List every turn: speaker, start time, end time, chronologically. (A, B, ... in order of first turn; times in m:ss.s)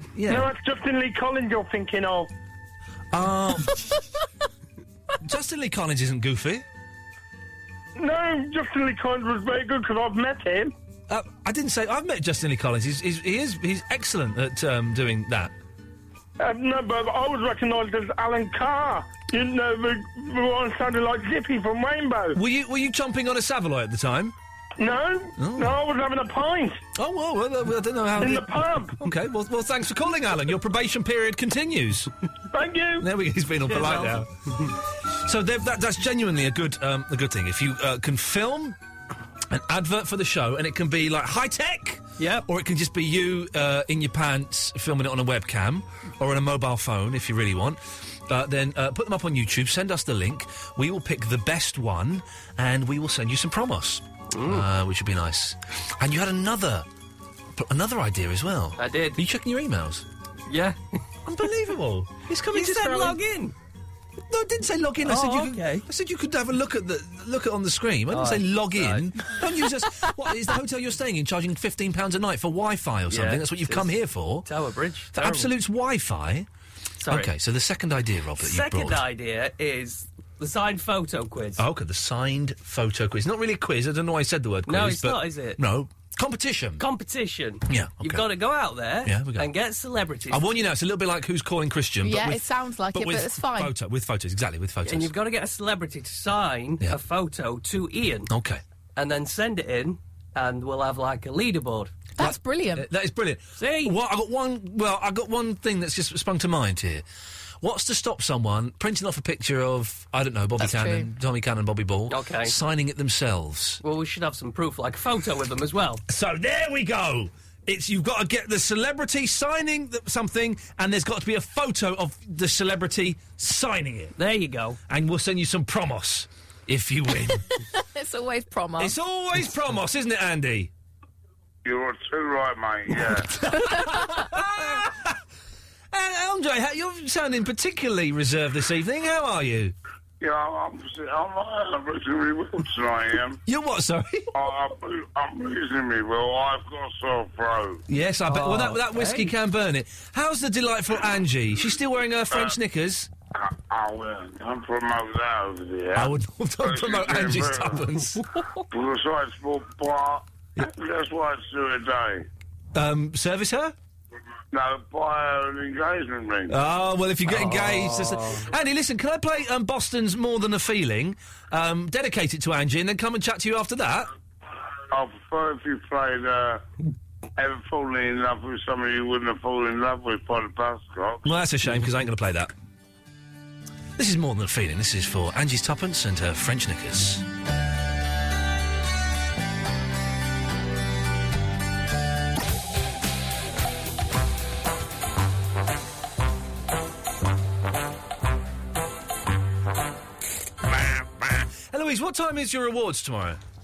0:00.1-0:00.5 A
0:00.3-0:02.3 B
0:03.1-0:04.0 A
0:05.2-0:06.6 A
0:08.0-0:10.7 B
0:11.1-0:15.5 A
0:16.4-0:22.4 B
0:22.3-0:24.3 A
0:24.8-0:26.8 B
0:25.4-0:25.8 A
0:27.0-0:32.1 A
0:28.2-0:29.0 B
0:32.5-0:33.1 B
0:33.0-0:34.3 A
0:33.7-0:34.7 C
0:35.2-0:38.8 A
0:39.5-0:56.9 A
0:42.2-0:42.4 C
0:54.3-0:54.6 C
0:57.6-1:00.0 A
0:58.8-0:59.2 C
1:00.5-1:00.8 C
1:01.2-1:03.2 A
1:02.5-1:03.5 C
1:04.3-1:14.5 A
1:05.0-1:05.8 C
1:08.1-1:09.4 C
1:13.1-1:15.5 C
1:15.1-1:16.5 A
1:17.0-1:17.3 C
1:17.1-1:19.0 A
1:18.4-1:21.6 C
1:21.6-1:26.8 A
1:24.7-1:25.6 C
1:26.8-1:30.6 C
1:27.7-1:28.3 A
1:29.0-1:29.5 A
1:30.3-1:35.1 A
1:32.0-1:33.7 D
1:34.8-1:38.3 C
1:38.3-1:38.6 A
1:39.0-1:41.9 C
1:42.2-1:42.9 D
1:42.2-1:47.0 A
1:43.6-1:43.9 C
1:47.6-1:53.8 A
1:50.6-1:51.1 D
1:52.1-1:52.5 C
1:53.8-1:56.0 C
1:56.1-2:04.2 A
2:04.2-2:04.8 C
2:04.9-2:07.5 A
2:07.7-2:08.9 D
2:08.8-2:10.7 A
2:11.6-2:13.4 E
2:13.4-2:15.2 A
2:15.9-2:19.7 A
2:20.2-2:23.4 E
2:23.4-2:24.3 A
2:24.3-2:27.8 E
2:27.9-2:33.1 A
2:28.3-2:29.3 C
2:33.3-2:37.8 E
2:35.9-2:38.2 A
2:38.7-2:42.3 E
2:42.7-2:43.7 A
2:44.5-2:46.6 E
2:46.5-2:54.1 A
2:47.3-2:48.4 C
2:54.9-2:56.6 E
2:57.4-3:01.3 E
3:01.2-3:02.5 A
3:04.0-3:07.2 A
3:20.7-3:23.4 A